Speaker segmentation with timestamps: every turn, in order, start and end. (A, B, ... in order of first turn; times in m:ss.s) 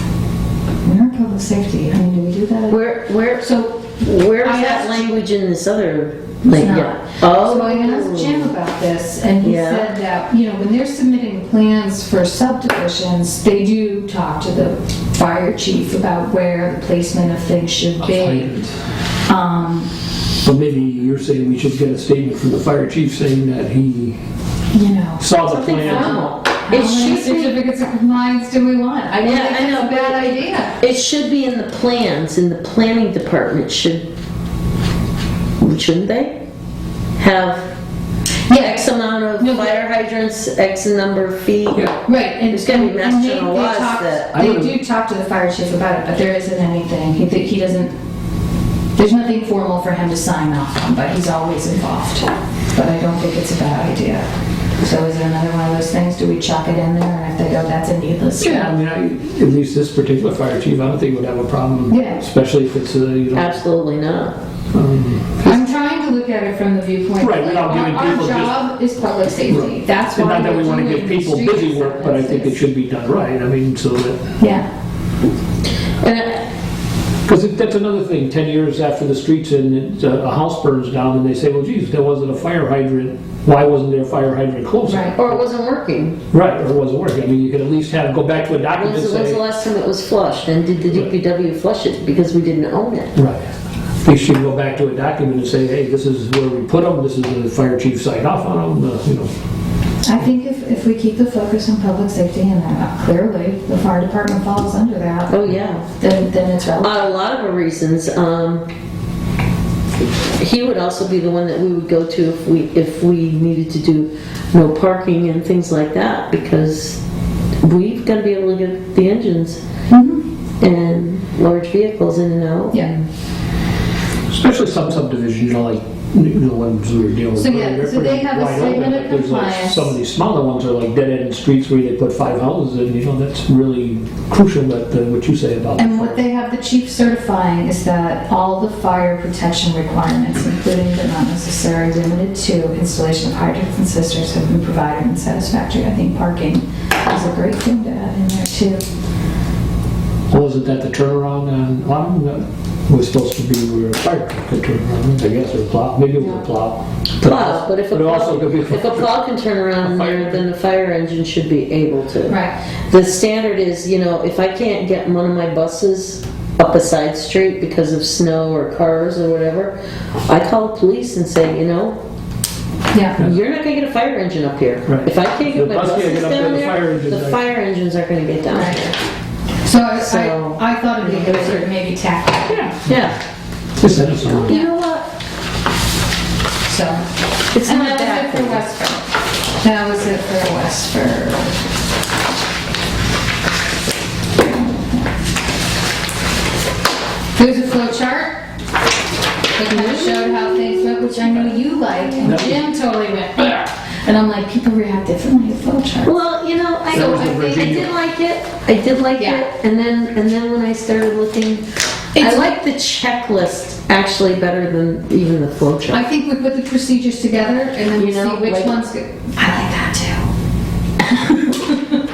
0:00.8-0:02.8 A
0:02.7-0:08.5 B
0:03.4-0:03.9 A
0:04.4-0:05.1 A
0:06.5-0:18.5 A
0:09.4-0:10.0 B
0:18.0-0:18.8 C
0:19.3-0:19.9 A
0:20.4-0:24.2 C
0:24.7-0:30.8 A
0:25.2-0:26.2 C
0:25.4-0:27.6 B
0:29.2-0:34.0 B
0:35.6-0:36.4 B
0:37.2-0:37.7 B
0:38.5-0:38.9 A
0:38.5-0:44.4 B
0:39.4-0:39.7 A
0:42.0-0:47.9 A
0:44.3-0:44.8 C
0:49.0-0:54.3 A
0:54.8-0:58.8 A
0:58.4-1:03.6 C
1:01.9-1:02.2 A
1:03.3-1:04.4 B
1:04.7-1:05.6 C
1:05.4-1:12.6 A
1:07.2-1:08.6 C
1:09.5-1:14.4 C
1:14.4-1:14.7 A
1:16.0-1:16.4 B
1:17.3-1:25.5 C
1:24.9-1:25.2 A
1:25.2-1:26.2 B
1:26.3-1:29.4 C
1:28.8-1:33.2 B
1:33.2-1:33.5 C
1:34.0-1:39.3 C
1:40.0-1:45.4 A
1:45.3-1:45.9 B
1:46.0-1:47.0 A
1:46.8-1:48.6 B
1:50.4-1:57.0 B
1:57.6-1:59.6 B
1:59.9-2:00.2 A
2:00.6-2:03.0 B
2:04.3-2:16.2 C
2:07.4-2:10.0 A
2:15.8-2:28.8 A
2:30.3-2:39.1 C
2:36.2-2:36.4 B
2:37.2-2:52.0 B
2:39.8-2:40.4 C
2:42.3-2:42.6 A
2:52.9-2:53.2 A
2:53.2-2:59.0 B
2:54.9-2:57.5 C
2:58.5-2:58.8 A
2:59.6-3:02.7 A
3:00.0-3:01.6 B
3:02.5-3:03.2 C
3:02.9-3:03.2 B
3:03.8-3:04.6 C
3:04.3-3:05.1 B
3:06.6-3:07.0 A
3:07.5-3:08.6 B
3:07.6-3:09.0 A
3:09.6-3:11.6 A
3:14.4-3:15.1 A
3:17.4-3:18.4 A
3:19.6-3:26.2 A
3:19.7-3:20.5 B
3:22.2-3:22.7 C
3:26.0-3:31.6 B
3:26.9-3:28.0 C
3:26.9-3:27.3 A
3:29.2-3:29.5 A
3:32.2-3:32.6 A
3:32.2-3:36.0 B
3:35.9-3:40.3 A
3:38.0-3:38.8 B
3:41.2-3:42.0 A